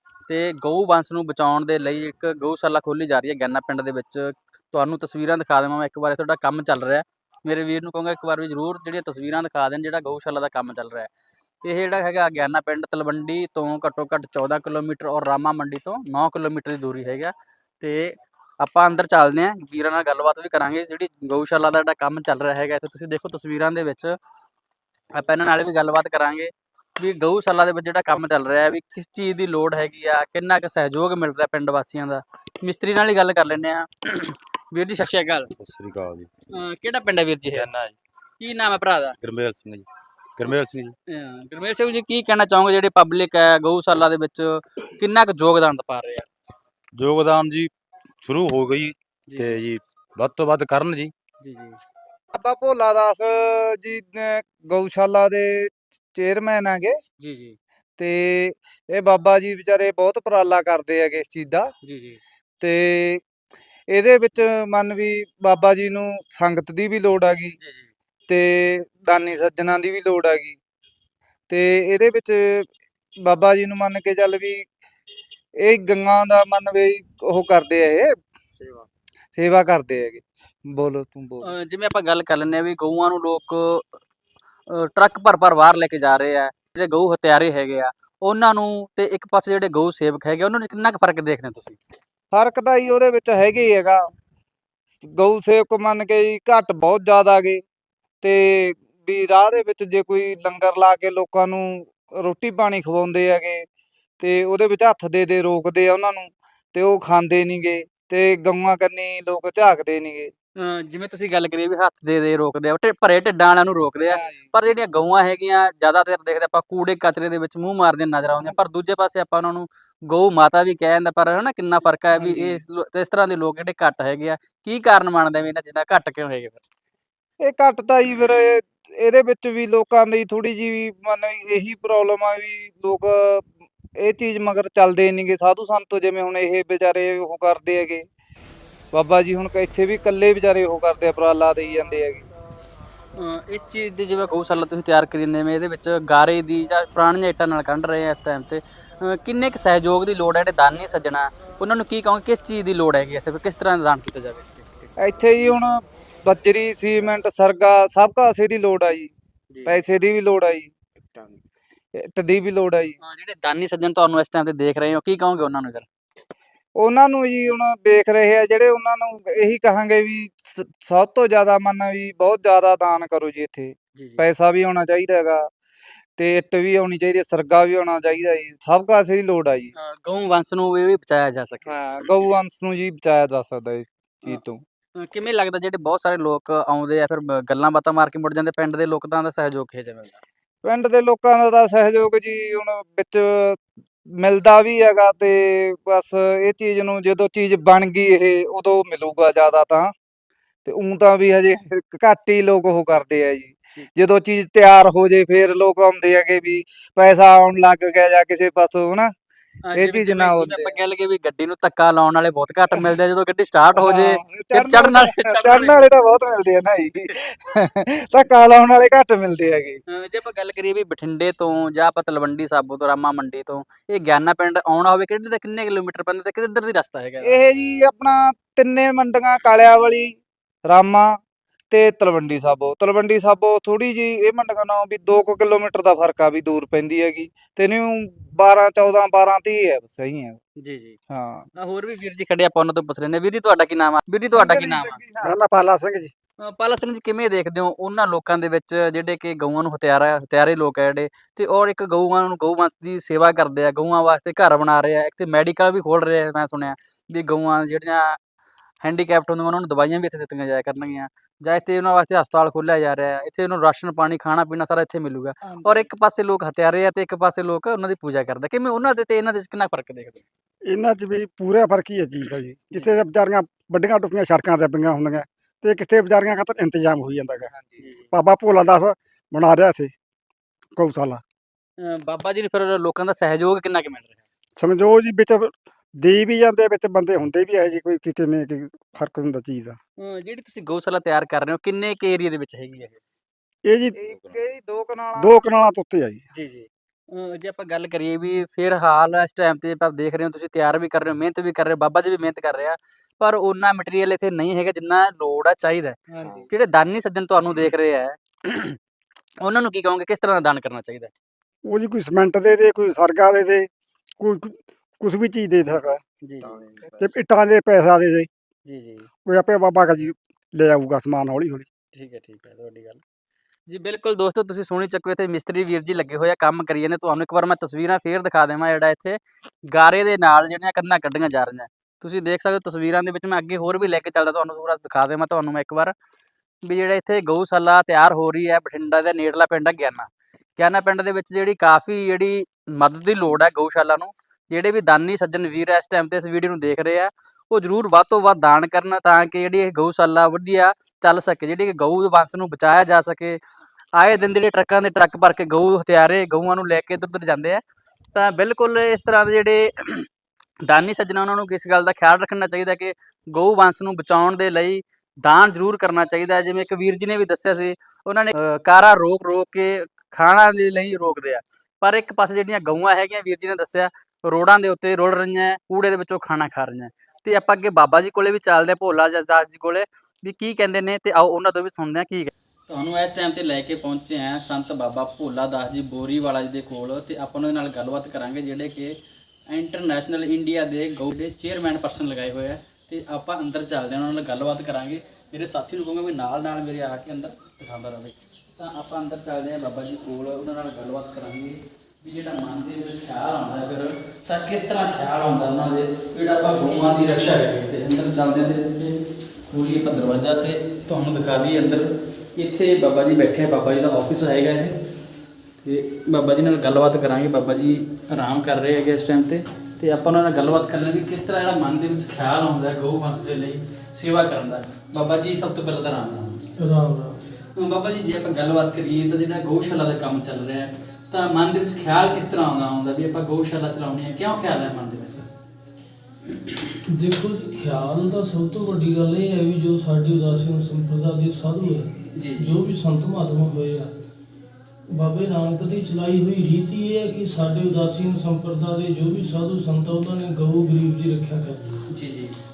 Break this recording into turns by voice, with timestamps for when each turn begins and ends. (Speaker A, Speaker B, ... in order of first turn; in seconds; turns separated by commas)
Speaker A: 0.3-11.1, Speaker A: 11.6-24.2, Speaker A: 25.1-35.5, Speaker B: 35.5-36.3, Speaker A: 36.5-37.7, Speaker B: 37.5-38.0, Speaker A: 38.4-39.1, Speaker B: 39.2-41.0, Speaker A: 41.1-46.3, Speaker B: 47.0-51.1, Speaker A: 49.3-49.6, Speaker A: 51.4-51.8, Speaker C: 52.4-57.0, Speaker A: 57.2-57.6, Speaker C: 58.0-61.7, Speaker A: 61.8-62.2, Speaker C: 62.6-63.2, Speaker C: 63.9-67.6, Speaker A: 67.6-67.9, Speaker C: 68.3-70.6, Speaker C: 71.5-72.7, Speaker C: 73.3-74.7, Speaker C: 75.6-78.1, Speaker C: 79.3-81.5, Speaker A: 81.4-83.8, Speaker A: 84.7-91.8, Speaker C: 92.3-94.0, Speaker C: 95.0-97.6, Speaker C: 98.2-103.7, Speaker C: 104.2-110.3, Speaker A: 110.6-126.6, Speaker C: 114.0-114.5, Speaker C: 122.2-122.6, Speaker C: 127.4-138.1, Speaker C: 138.9-142.3, Speaker A: 143.2-155.0, Speaker C: 155.0-159.1, Speaker A: 159.5-159.8, Speaker C: 159.7-160.7, Speaker C: 162.0-163.0, Speaker A: 163.0-165.9, Speaker C: 166.8-175.4, Speaker A: 174.0-174.2, Speaker C: 176.2-179.7, Speaker A: 179.8-181.8, Speaker C: 181.7-184.6, Speaker A: 185.0-190.2, Speaker C: 190.6-193.6, Speaker C: 194.2-199.9, Speaker C: 200.7-209.1, Speaker A: 209.7-215.9, Speaker C: 209.7-210.8, Speaker C: 213.8-219.8, Speaker A: 219.9-227.4, Speaker C: 227.2-231.1, Speaker C: 231.7-240.4, Speaker A: 240.6-241.0, Speaker C: 241.1-241.5, Speaker A: 241.6-245.0, Speaker C: 244.3-245.3, Speaker D: 245.2-246.1, Speaker A: 246.4-258.2, Speaker A: 258.8-270.2, Speaker D: 270.7-277.5, Speaker A: 277.8-278.1, Speaker D: 278.1-279.9, Speaker D: 280.8-281.2, Speaker A: 281.8-284.2, Speaker D: 284.6-289.8, Speaker A: 290.0-293.0, Speaker D: 293.7-294.1, Speaker C: 294.0-295.4, Speaker D: 295.2-296.2, Speaker A: 296.3-308.8, Speaker A: 309.4-311.1, Speaker D: 311.7-313.7, Speaker D: 314.2-316.0, Speaker A: 316.2-316.9, Speaker D: 317.0-318.3, Speaker A: 318.7-319.1, Speaker D: 319.2-321.7, Speaker A: 321.9-323.0, Speaker A: 323.7-329.2, Speaker A: 329.7-335.9, Speaker A: 336.7-353.4, Speaker A: 354.0-357.6, Speaker A: 358.1-360.1, Speaker A: 360.7-389.0, Speaker A: 389.5-414.8, Speaker A: 415.6-426.4, Speaker E: 426.6-427.2, Speaker A: 427.6-435.3, Speaker E: 436.9-443.9, Speaker A: 442.1-442.6, Speaker E: 444.9-451.8, Speaker A: 451.9-452.4